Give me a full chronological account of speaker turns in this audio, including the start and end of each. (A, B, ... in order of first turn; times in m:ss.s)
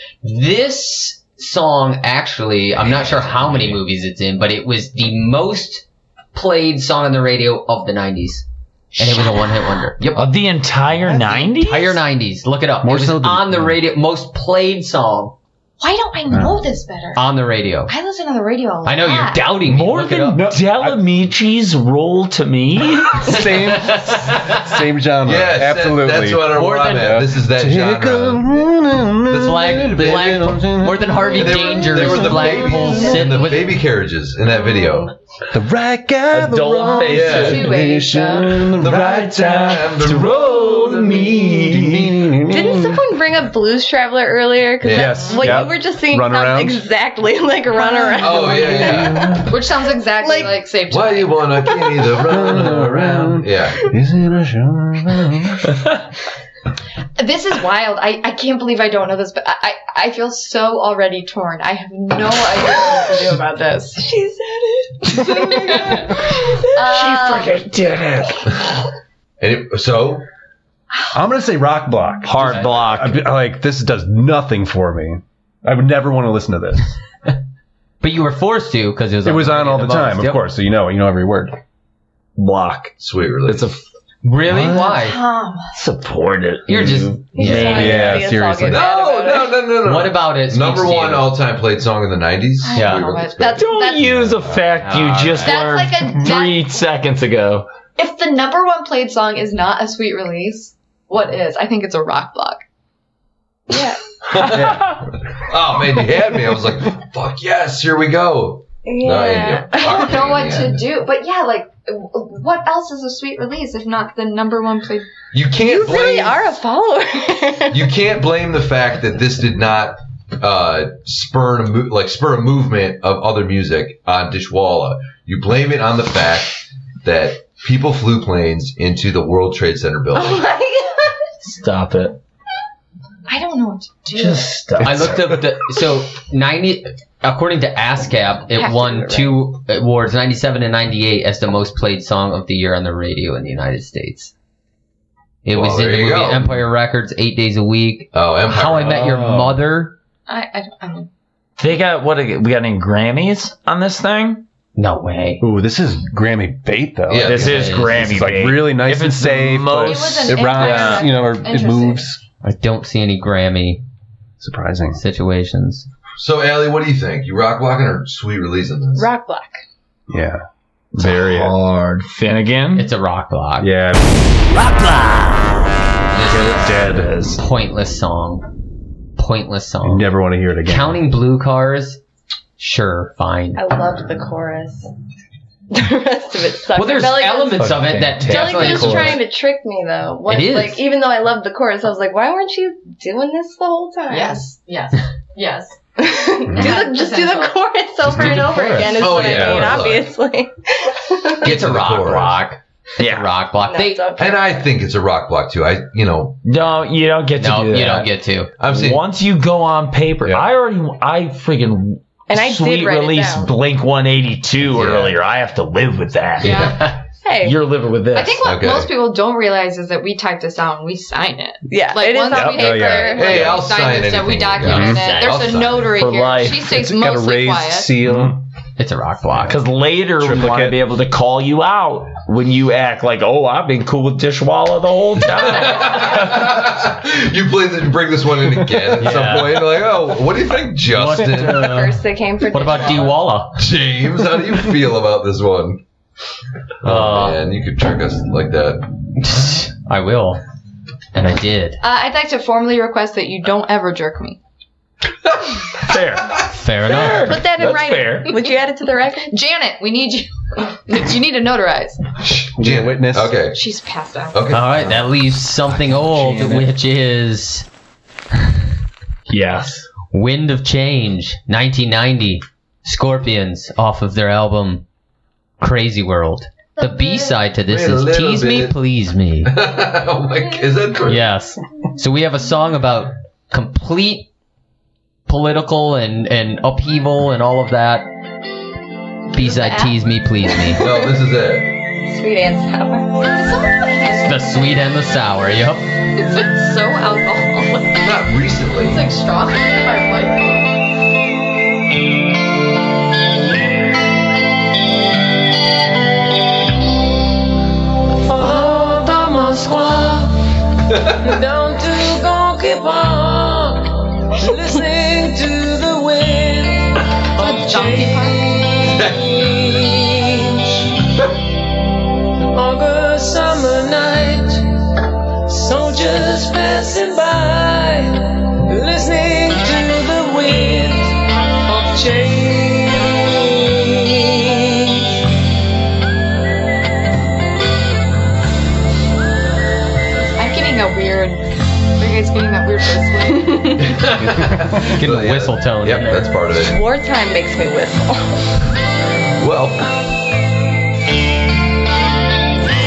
0:00.2-0:08.4 A
0:09.0-0:09.6 B
0:09.0-0:10.3 A
0:10.2-0:12.0 C
0:11.0-0:11.5 D
0:11.5-0:15.4 A
0:12.8-0:13.8 D
0:15.8-0:17.2 B
0:16.3-0:16.6 D
0:17.2-0:17.9 A
0:17.9-0:19.5 B
0:18.8-0:20.4 A
0:19.6-0:23.3 C
0:20.3-0:21.0 D
0:23.2-0:33.2 D
0:23.3-0:24.6 A
0:25.2-0:28.7 E
0:26.5-0:27.2 A
0:29.3-0:30.5 E
0:29.4-0:33.7 A
0:31.3-0:35.1 E
0:35.5-0:39.1 D
0:36.3-0:37.8 C
0:36.9-0:38.6 B
0:37.1-0:37.7 E
0:38.8-0:42.2 C
0:38.8-0:41.6 E
0:41.6-0:43.0 D
0:42.5-0:49.5 F
0:44.8-0:45.6 E
0:44.9-0:46.8 D
0:47.8-0:48.7 B
0:48.2-0:49.4 E
0:48.5-0:49.5 D
0:49.4-0:51.6 B
0:50.2-0:50.6 F
0:50.9-0:53.8 E
0:52.3-0:55.8 D
0:57.2-1:04.1 B
1:04.0-1:06.8 F
1:05.1-1:07.6 B
1:06.8-1:08.6 C
1:09.4-1:10.2 E
1:11.1-1:16.9 D
1:12.2-1:13.3 C
1:18.0-1:20.5 A
1:19.2-1:21.6 D
1:22.4-1:22.9 C
1:23.0-1:23.8 E
1:23.5-1:23.8 C
1:24.2-1:25.2 A
1:24.5-1:24.9 D
1:24.6-1:25.7 B
1:25.8-1:28.3 C
1:26.7-1:28.0 A
1:27.3-1:29.6 F
1:27.8-1:28.8 D
1:28.6-1:33.7 E
1:29.8-1:31.3 A
1:32.6-1:34.2 B
1:32.8-1:33.1 A
1:33.6-1:37.7 C
1:34.8-1:35.6 A
1:35.5-1:36.8 B
1:38.0-1:42.6 B
1:43.7-1:44.0 F
1:44.3-1:50.8 E
1:44.5-1:45.0 D
1:48.8-1:50.1 F
1:49.8-1:55.1 B
1:55.3-1:56.4 E
1:55.6-1:57.9 F
1:57.7-2:10.5 E
2:10.1-2:11.1 F
2:11.4-2:12.2 C
2:13.3-2:14.6 B
2:14.1-2:15.3 C
2:14.8-2:24.3 A
2:18.6-2:19.4 F
2:25.4-2:30.0 A
2:25.5-2:26.6 E
2:28.1-2:29.1 E
2:29.0-2:29.5 C
2:29.2-2:29.5 D
2:30.3-2:31.1 B
2:31.6-2:34.5 C
2:34.8-2:35.4 A
2:35.4-2:42.2 D
2:37.1-2:37.8 E
2:37.2-2:41.1 C
2:37.4-2:37.9 A
2:39.8-2:42.1 B
2:42.4-2:43.8 A
2:44.4-2:45.0 D
2:44.9-2:45.9 A
2:46.2-2:49.1 E
2:49.0-2:49.6 F
2:50.1-2:51.6 D
2:51.0-2:52.9 C
2:52.7-2:53.7 A
2:53.6-2:54.2 D
2:54.5-2:57.4 C
2:56.1-2:56.7 A
2:56.6-2:57.1 D
2:57.3-2:58.4 A
2:59.2-3:00.1 A
2:59.8-3:01.0 D
3:00.6-3:02.0 A
3:02.6-3:03.6 A
3:03.6-3:04.9 F
3:05.7-3:14.4 F
3:06.8-3:09.2 A
3:07.6-3:09.3 C
3:10.3-3:10.9 A
3:14.1-3:15.8 B
3:16.0-3:21.5 F
3:16.5-3:16.8 D
3:16.5-3:17.6 B
3:18.1-3:18.4 D
3:18.1-3:19.9 A
3:18.9-3:20.1 E
3:19.3-3:19.8 D
3:21.4-3:24.1 A
3:21.4-3:22.4 E
3:23.0-3:23.3 C
3:23.6-3:24.7 F
3:24.2-3:26.4 E
3:26.4-3:28.1 C
3:27.4-3:28.5 A
3:28.6-3:29.0 E
3:28.6-3:36.7 C
3:32.3-3:33.5 F
3:34.7-3:35.2 E
3:36.4-3:36.8 B
3:36.5-3:37.0 A
3:37.2-3:37.6 F
3:37.4-3:38.5 C
3:38.1-3:48.0 B
3:38.4-3:38.9 E
3:41.7-3:43.6 F
3:42.3-3:42.6 C
3:42.4-3:43.3 D
3:43.2-3:46.0 E
3:44.6-3:45.1 D
3:44.7-3:45.5 A
3:45.9-3:46.7 C
3:46.7-3:48.4 D
3:48.0-3:48.4 C
3:48.8-3:49.6 A
3:49.5-3:56.5 C
3:50.2-3:50.8 D
3:55.4-4:01.7 E
3:59.0-3:59.7 A
4:00.9-4:03.6 A
4:01.4-4:03.2 F
4:03.6-4:05.8 E
4:06.8-4:07.4 A
4:06.8-4:08.9 E
4:09.2-4:10.4 A
4:11.1-4:11.8 A
4:11.8-4:14.4 B
4:15.8-4:18.4 C
4:16.4-4:17.4 A
4:17.3-4:19.3 F
4:19.3-4:22.0 B
4:22.2-4:23.6 E
4:22.6-4:23.4 D
4:23.5-4:24.7 B
4:24.3-4:25.0 E
4:24.5-4:27.7 A
4:25.7-4:26.7 C
4:29.3-4:29.9 C
4:30.1-4:34.8 A
4:35.6-4:39.6 A
4:36.8-4:37.3 B
4:37.7-4:38.8 E
4:39.5-4:41.3 E
4:41.1-4:44.3 A
4:45.3-4:48.1 A
4:49.3-4:50.8 A
4:49.3-4:50.0 B
4:50.8-4:51.7 E
4:52.1-4:53.1 F
4:53.2-4:54.6 B
4:54.2-4:55.9 A
4:56.2-4:58.1 B
4:58.0-4:59.1 E
4:58.8-5:00.8 B
5:08.3-5:10.4 G
5:11.2-5:20.8 G
5:17.4-5:18.6 B
5:22.5-5:24.7 G
5:25.4-5:34.8 G
5:40.4-5:44.0 B
5:43.3-5:43.8 F
5:43.8-5:46.8 E
5:44.8-5:46.3 A
5:46.5-5:48.4 F
5:49.4-5:49.9 E